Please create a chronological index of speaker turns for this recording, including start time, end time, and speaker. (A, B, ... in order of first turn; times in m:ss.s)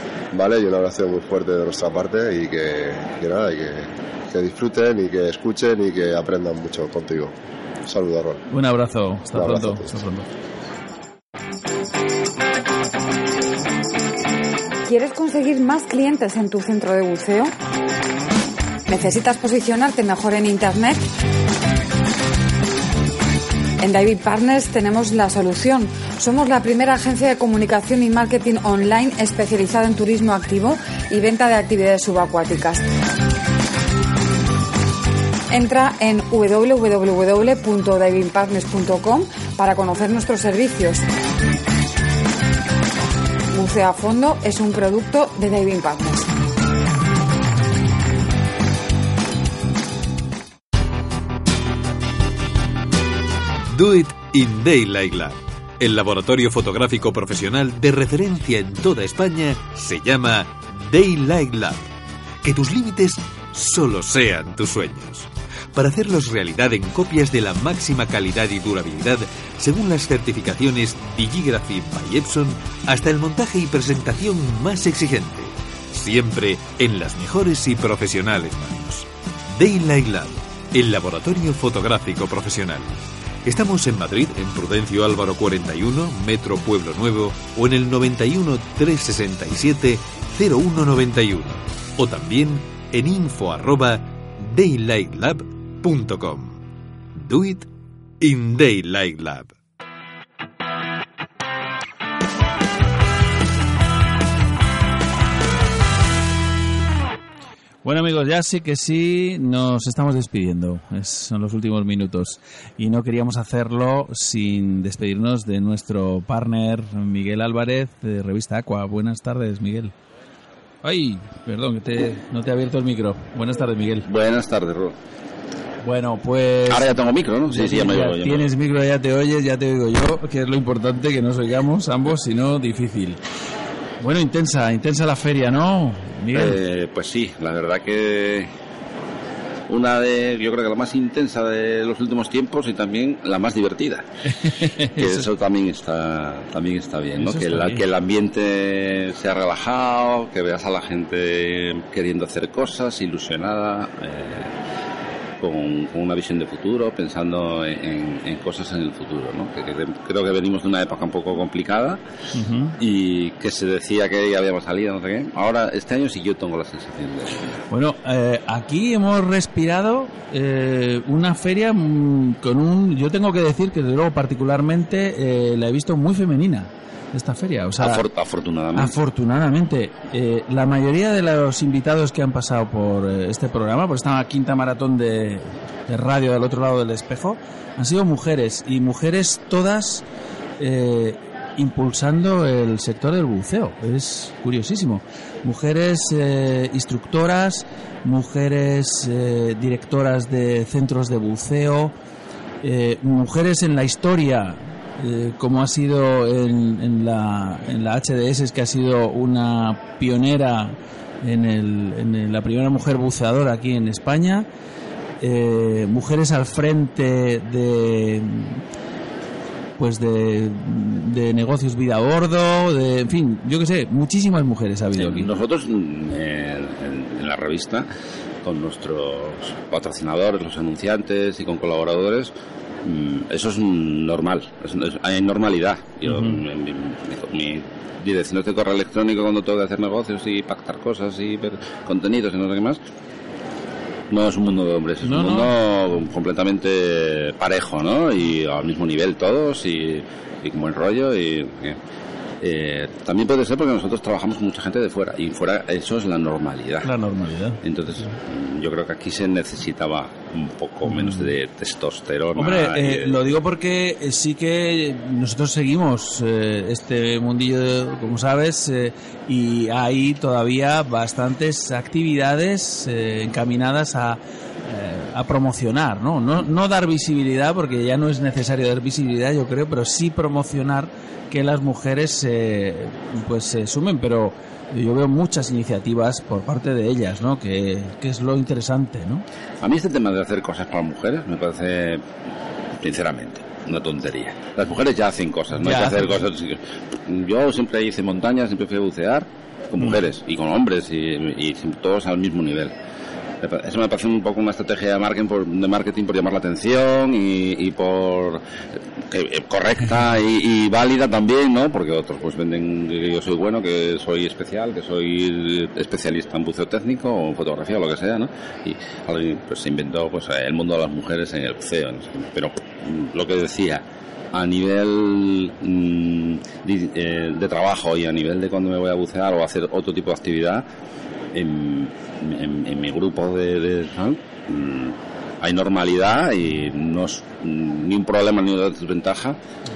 0:00.3-0:07.3 A
0:07.8-0:08.4 A
0:08.5-0:10.3 B
0:09.3-0:09.9 A
0:14.8-0:17.5 C
0:18.9-0:21.0 C
0:23.8-0:32.8 C
0:35.5-0:41.0 C
0:43.5-0:46.2 C
0:53.7-1:01.8 D
1:02.4-1:22.9 D
1:23.4-1:36.6 D
1:37.2-1:37.6 D
1:38.2-1:39.5 D
1:47.8-1:59.9 B
2:00.8-2:04.0 B
2:04.0-2:04.9 E
2:05.8-2:06.9 B
2:06.7-2:08.5 E
2:07.5-2:13.2 B
2:14.0-2:16.6 B
2:16.3-2:18.5 E
2:19.7-2:24.0 E
2:24.3-2:25.2 B
2:25.0-2:34.5 E
2:27.2-2:27.8 B
2:35.4-2:42.0 E
2:42.3-2:42.7 B
2:42.8-2:47.6 E
2:47.7-2:58.0 B
2:57.8-2:58.9 E
2:58.7-3:10.0 B
3:10.6-3:21.9 B
3:22.6-3:34.5 B
3:35.2-3:38.6 B
3:39.8-3:45.3 B
3:45.0-3:47.9 E
3:48.4-3:52.3 E
3:52.8-4:02.8 E
3:56.0-3:56.4 B
4:04.1-4:11.8 E
4:05.0-4:05.5 B
4:12.4-4:16.9 E
4:16.8-4:17.6 B
4:17.6-4:23.2 E
4:20.9-4:21.3 B
4:22.4-4:49.2 B
4:49.6-4:52.0 E
4:52.8-5:02.7 E
4:55.5-4:56.2 B
5:03.4-5:08.4 E
5:09.0-5:30.6 E
5:31.3-5:39.4 E